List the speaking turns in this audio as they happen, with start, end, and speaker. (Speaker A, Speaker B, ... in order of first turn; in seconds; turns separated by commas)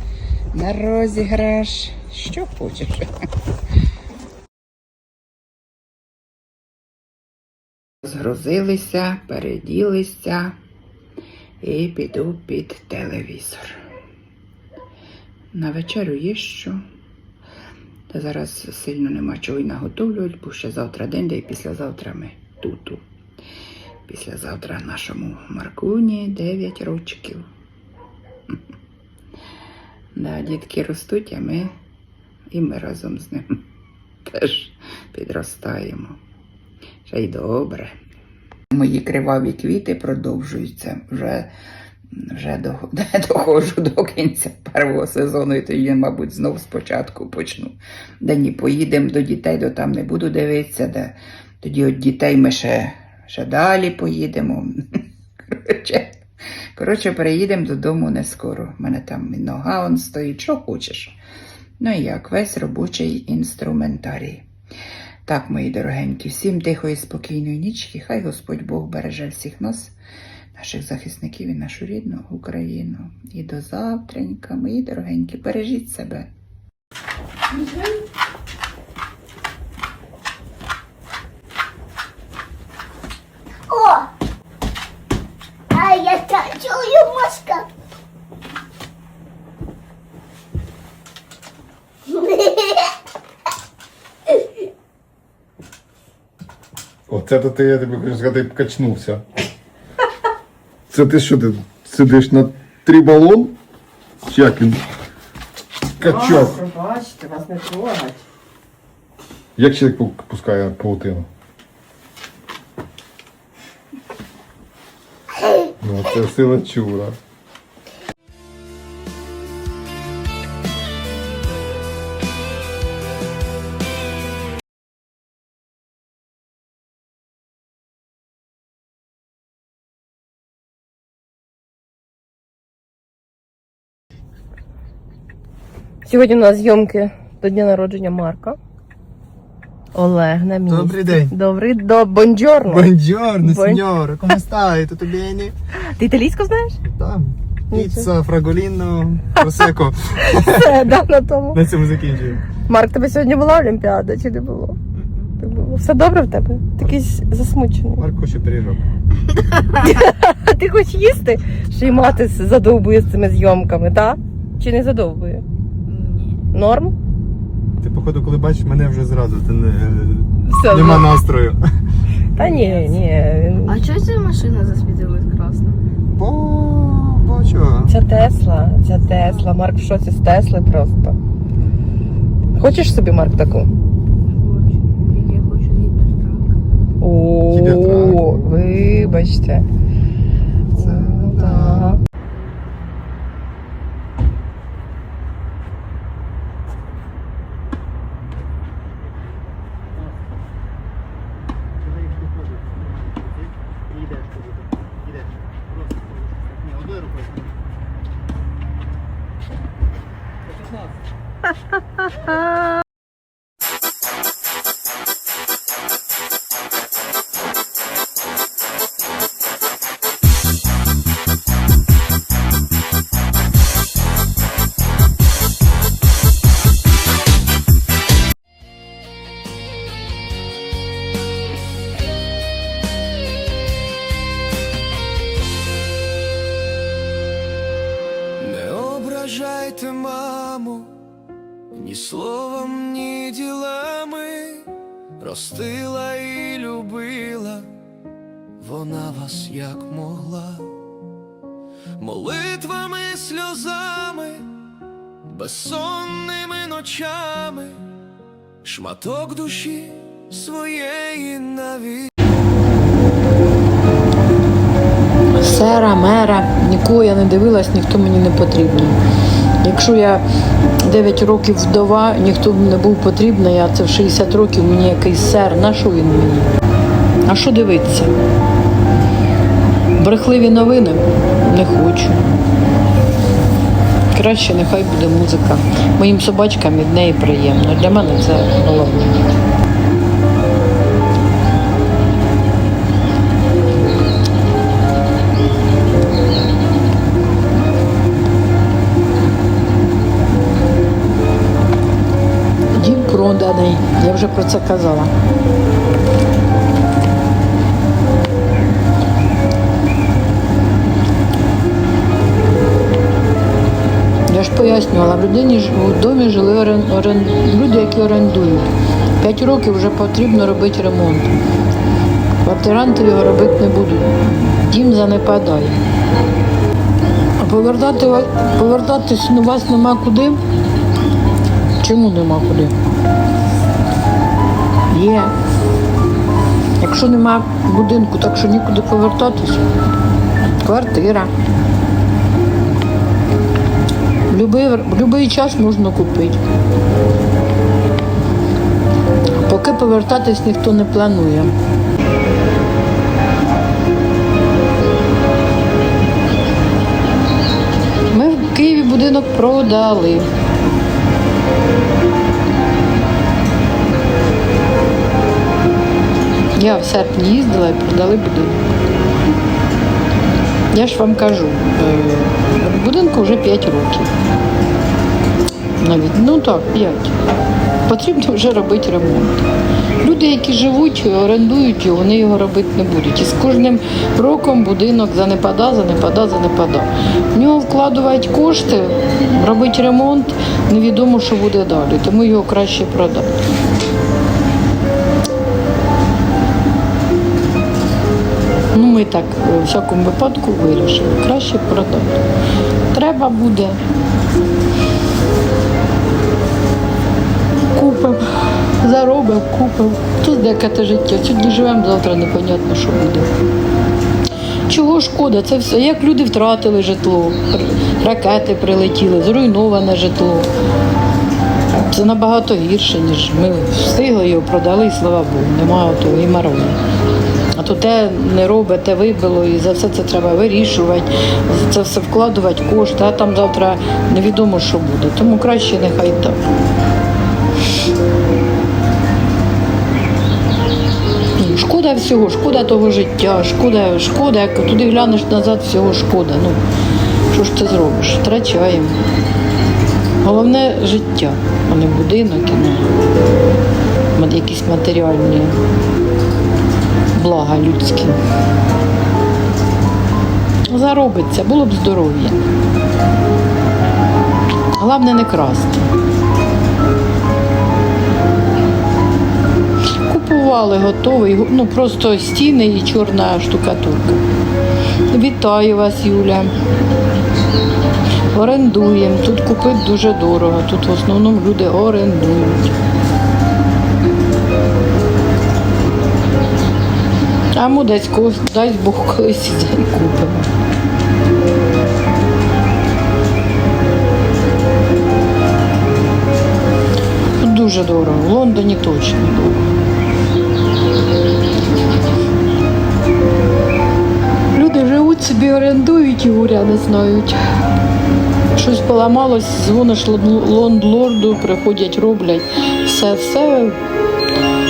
Speaker A: 0.5-3.1, Speaker A: 8.0-10.6, Speaker A: 11.6-13.8, Speaker A: 15.5-16.8, Speaker A: 18.1-23.0, Speaker A: 24.1-27.4, Speaker A: 30.2-31.7, Speaker A: 32.5-33.6, Speaker A: 34.3-36.2, Speaker A: 37.1-37.9, Speaker A: 38.7-41.5, Speaker A: 42.2-56.2, Speaker A: 56.8-61.2, Speaker A: 61.8-64.5, Speaker A: 65.3-69.9, Speaker A: 70.5-76.3, Speaker B: 83.7-84.1, Speaker B: 85.7-87.7, Speaker B: 92.1-92.9, Speaker C: 97.1-99.2, Speaker C: 100.9-103.6, Speaker C: 104.3-104.8, Speaker C: 106.0-106.6, Speaker D: 106.0-108.2, Speaker C: 109.6-111.3, Speaker C: 115.8-117.2, Speaker D: 136.1-138.6, Speaker D: 139.9-143.8, Speaker E: 140.7-141.3, Speaker E: 142.7-145.5, Speaker D: 145.8-146.8, Speaker E: 146.8-151.0, Speaker D: 147.7-148.1, Speaker D: 150.3-151.6, Speaker E: 151.5-152.4, Speaker D: 152.7-154.8, Speaker D: 155.4-158.0, Speaker E: 158.0-158.8, Speaker D: 159.8-165.4, Speaker F: 165.9-166.4, Speaker D: 166.5-166.9, Speaker E: 167.8-171.6, Speaker D: 170.4-171.2, Speaker D: 172.4-173.8, Speaker F: 172.4-173.0, Speaker F: 173.7-175.8, Speaker E: 176.2-177.9, Speaker D: 177.9-181.2, Speaker F: 179.1-179.5, Speaker D: 182.6-183.7, Speaker F: 184.2-186.6, Speaker D: 187.0-189.7, Speaker E: 187.5-188.6, Speaker E: 190.7-192.0, Speaker D: 190.8-192.0, Speaker E: 202.1-202.9, Speaker E: 204.0-204.3, Speaker E: 206.8-207.2, Speaker G: 238.4-240.9, Speaker G: 241.7-247.7, Speaker G: 248.6-250.7, Speaker G: 252.0-254.5, Speaker G: 255.3-257.8, Speaker G: 258.6-262.1, Speaker H: 265.4-269.0, Speaker H: 269.6-270.2, Speaker H: 270.9-276.5, Speaker H: 277.3-278.1, Speaker H: 280.0-282.2, Speaker H: 284.1-289.2, Speaker H: 302.8-305.1, Speaker H: 314.3-318.7, Speaker H: 319.2-321.3, Speaker H: 322.4-325.8, Speaker H: 327.4-330.4, Speaker H: 331.8-332.7, Speaker H: 334.9-335.3, Speaker H: 336.8-339.6, Speaker H: 340.6-341.3, Speaker H: 344.3-346.4, Speaker H: 349.4-351.5, Speaker H: 358.1-360.3, Speaker H: 366.6-368.6, Speaker H: 370.7-374.1, Speaker H: 375.8-377.1, Speaker H: 377.9-379.5, Speaker H: 380.0-393.3, Speaker H: 398.7-402.2, Speaker H: 402.9-403.8, Speaker H: 407.7-413.3, Speaker H: 414.7-420.5, Speaker H: 421.9-426.8, Speaker H: 427.6-436.4, Speaker H: 441.4-446.6, Speaker H: 447.3-449.0, Speaker H: 450.2-453.0, Speaker H: 454.1-455.6, Speaker H: 457.1-458.2, Speaker H: 460.7-462.4, Speaker H: 464.8-465.9, Speaker H: 470.1-474.2, Speaker H: 475.1-476.5, Speaker H: 478.3-482.7, Speaker H: 487.6-490.5, Speaker H: 497.4-499.7, Speaker H: 504.5-507.4, Speaker H: 508.6-513.8